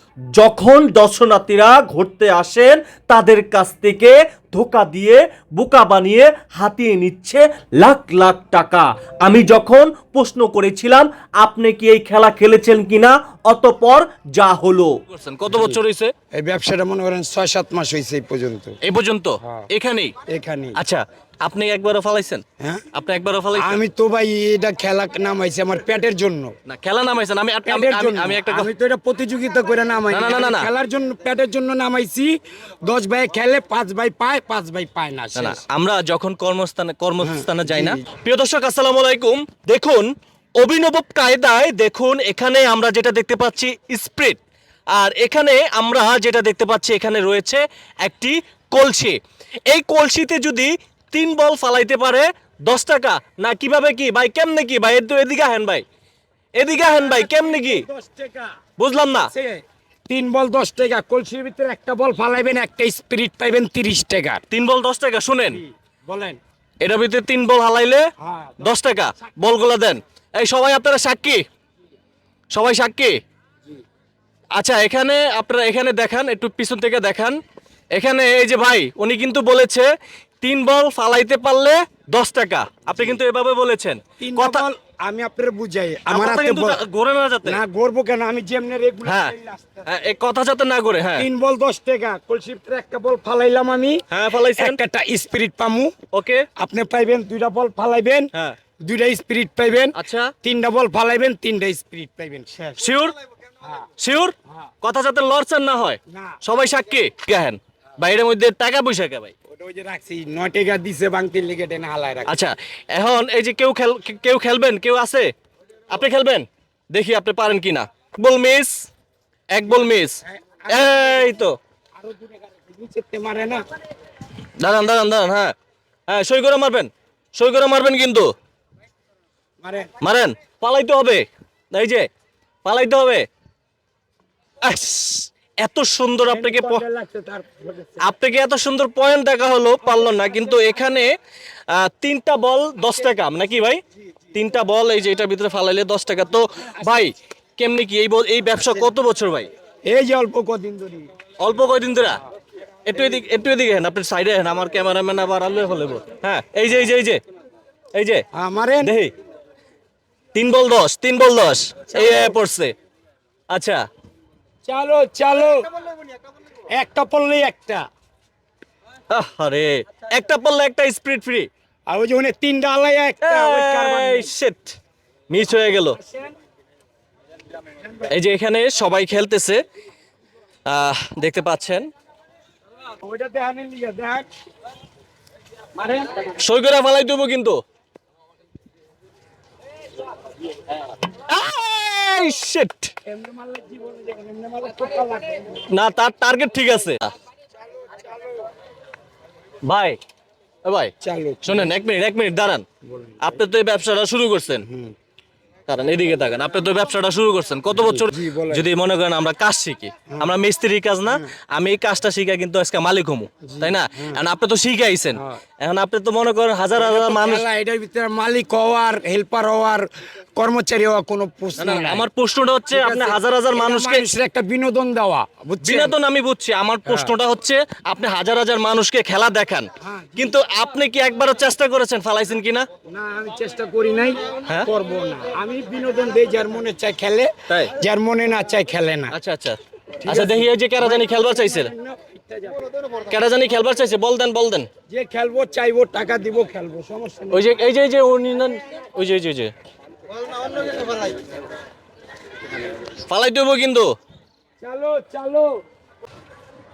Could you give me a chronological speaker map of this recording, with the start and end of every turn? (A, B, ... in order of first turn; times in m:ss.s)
0:00.3-0:15.0 A
0:15.1-0:16.1 B
0:15.5-0:15.8 C
0:16.3-0:18.8 C
0:18.8-0:20.1 B
0:19.4-0:19.7 C
0:20.3-0:20.8 C
0:20.8-0:22.4 B
0:22.6-0:22.8 C
0:22.9-0:23.8 B
0:23.5-0:26.5 C
0:26.7-0:28.7 B
0:27.6-0:32.3 C
0:30.1-0:30.7 B
0:32.8-0:35.6 C
0:35.4-0:44.4 B
0:37.2-0:38.0 C
0:44.9-0:49.2 B
0:49.7-0:55.8 B
0:56.6-0:57.8 B
0:56.9-0:58.5 C
0:58.8-0:59.3 B
0:59.3-1:04.4 C
1:04.5-1:05.6 B
1:05.5-1:06.4 C
1:06.8-1:08.0 B
1:08.2-1:09.3 C
1:08.6-1:11.4 B
1:12.5-1:13.2 B
1:14.6-1:17.4 B
1:17.9-1:19.9 B
1:20.4-1:24.6 B
1:24.2-1:26.8 C
1:26.1-1:27.6 B
1:27.4-1:29.9 C
1:29.0-1:29.3 B
1:29.8-1:31.3 B
1:31.2-1:34.0 C
1:34.1-1:34.8 B
1:34.5-1:35.9 C
1:36.1-1:36.4 B
1:36.6-1:38.3 C
1:38.8-1:42.8 C
1:39.9-1:40.3 B
1:42.8-1:43.1 B
1:43.6-1:43.9 C
1:44.0-1:49.3 B
1:46.1-1:46.4 C
1:49.5-1:52.4 C
1:52.2-1:55.3 B
1:55.9-1:58.7 B
1:59.5-2:01.6 B
2:00.2-2:01.4 C
2:02.0-2:03.6 C
2:04.6-2:05.5 B
2:06.1-2:08.3 B
2:09.6-2:09.9 C
2:10.0-2:12.1 B
2:12.6-2:13.2 B
2:14.6-2:16.8 B
2:16.3-2:18.1 C
2:18.0-2:21.1 B
2:19.8-2:20.8 C
2:21.7-2:23.8 B
2:24.3-2:29.5 B
2:29.8-2:31.0 C
2:31.4-2:32.2 B
2:32.8-2:37.2 B
2:38.0-2:38.2 B
2:38.3-2:38.9 C
2:38.8-2:39.1 B
2:40.3-2:42.7 B
2:41.9-2:42.3 C
2:43.5-2:43.8 B
2:44.6-2:45.6 C
2:46.7-2:47.8 C
2:49.1-2:51.5 B
2:51.9-2:54.3 C
2:53.2-2:54.8 B
2:55.3-2:56.0 B
2:55.9-2:56.3 C
2:57.8-2:58.1 C
2:58.1-2:59.6 B
3:00.7-3:01.9 B
3:03.0-3:04.3 C
3:05.8-3:06.3 C
3:06.4-3:07.6 B
3:11.3-3:12.9 B
3:13.0-3:15.7 C
3:15.7-3:17.1 B
3:19.6-3:20.0 B
3:20.6-3:20.9 B
3:21.0-3:21.7 C
3:21.4-3:22.6 B
3:22.8-3:23.2 C
3:23.2-3:24.6 B
3:24.6-3:24.9 C
3:25.7-3:37.4 B
3:27.7-3:28.7 C
3:30.1-3:30.4 C
3:31.0-3:31.3 C
3:33.4-3:34.2 C
3:35.1-3:35.4 C
3:36.7-3:42.1 C
3:41.6-3:44.1 B
3:42.7-3:46.0 C
3:45.6-3:52.7 B
3:46.8-3:47.1 C
3:49.8-3:50.4 C
3:52.9-3:59.1 C
3:59.1-4:01.7 B
4:00.0-4:02.7 C
4:03.1-4:04.7 B
4:04.9-4:07.6 C
4:07.3-4:09.5 B
4:13.0-4:13.9 B
4:14.6-4:15.6 C